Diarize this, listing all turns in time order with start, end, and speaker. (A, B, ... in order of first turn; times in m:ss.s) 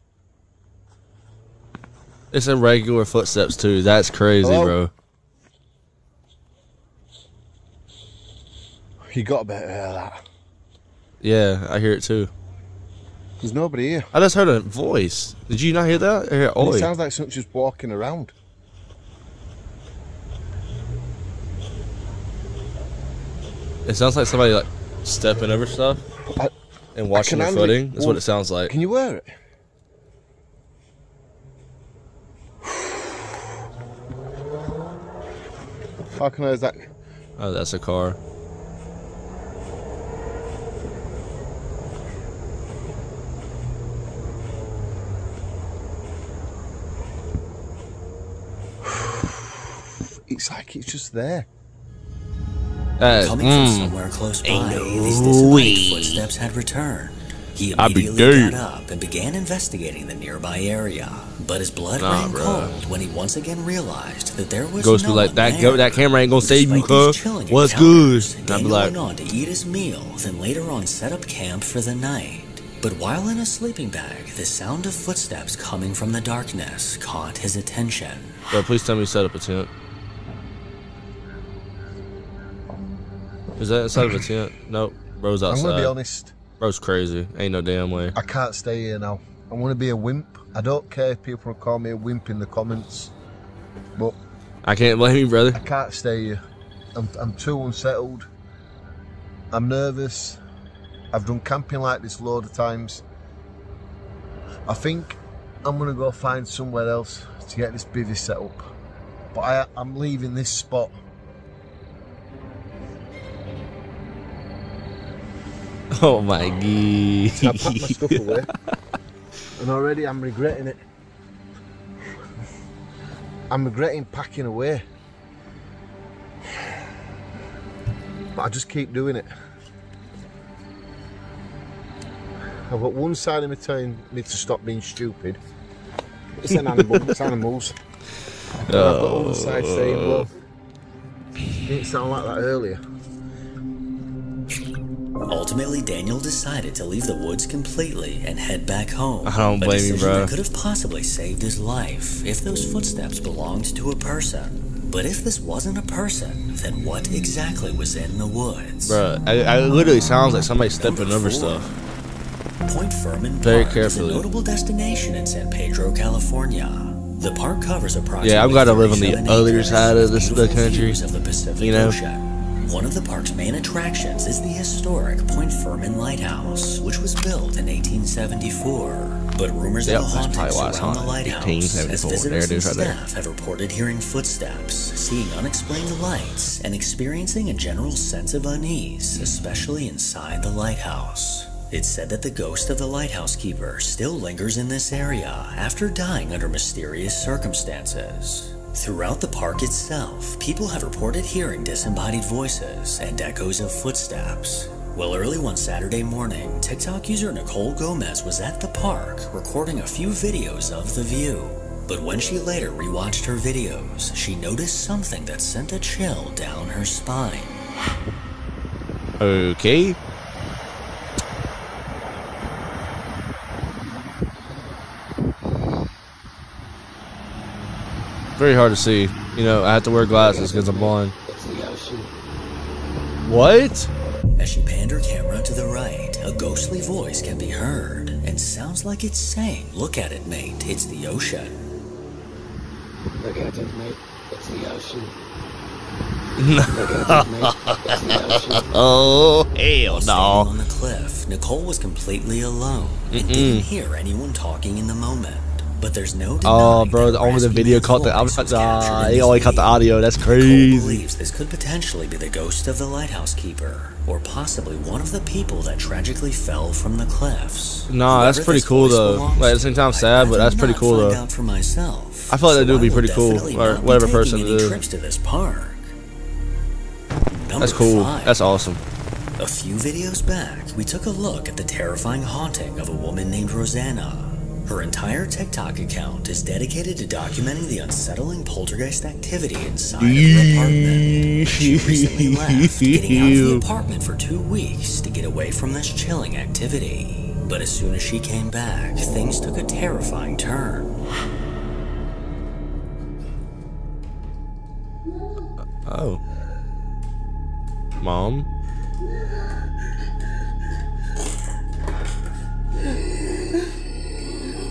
0:02.3-0:04.9 A
0:04.4-0:04.8 B
0:09.1-0:10.2 B
0:11.2-0:12.3 A
0:13.4-0:14.1 B
0:14.1-0:16.9 A
0:16.6-0:18.3 B
0:23.8-0:26.0 A
0:26.9-0:28.7 A
0:27.1-0:29.3 B
0:36.2-0:36.9 B
0:37.4-0:38.2 A
0:48.8-0:49.7 B
0:50.3-0:51.5 B
0:53.0-0:56.2 A
0:53.1-1:18.4 C
0:57.8-0:58.6 A
1:02.0-1:02.8 A
1:04.8-1:08.9 A
1:18.5-1:19.7 A
1:23.6-1:25.9 A
1:25.5-1:26.4 B
1:26.6-1:28.1 A
1:28.1-1:33.1 B
1:34.6-1:35.6 A
1:35.5-1:36.4 B
1:36.9-1:38.3 B
1:39.5-1:40.4 B
1:41.1-1:43.0 B
1:44.7-1:48.7 B
1:49.3-1:50.9 B
1:55.9-1:58.5 A
1:57.3-1:58.5 B
1:59.6-2:00.8 B
2:03.5-2:04.8 B
2:08.4-2:09.3 B
2:12.7-2:15.4 B
2:16.4-2:17.8 B
2:18.6-2:20.3 B
2:18.7-2:20.3 A
2:21.5-2:22.8 B
2:25.3-2:39.0 C
2:29.2-2:30.3 A
2:38.9-2:41.7 A
2:40.8-2:41.7 C
2:42.6-3:37.6 C
2:43.4-2:44.3 A
2:48.2-2:51.0 A
2:51.6-2:52.0 A
2:59.8-3:03.0 A
3:39.2-3:40.0 A
3:48.4-3:51.1 A
3:51.3-3:51.9 B
3:51.3-3:52.0 D
3:53.2-3:53.9 A
3:54.4-4:01.6 C
4:03.2-4:05.1 D
4:06.4-4:10.5 A
4:06.8-4:07.5 D
4:08.0-4:08.6 D
4:08.1-4:08.4 B
4:09.8-4:35.9 C
4:13.1-4:13.7 A
4:16.4-4:21.0 A
4:27.9-4:31.2 A
4:32.3-4:34.8 A
4:37.3-4:38.3 C
4:37.6-4:38.8 A
4:39.4-5:01.0 C
4:50.0-4:53.6 A
5:05.8-5:06.2 A
5:08.0-5:08.5 A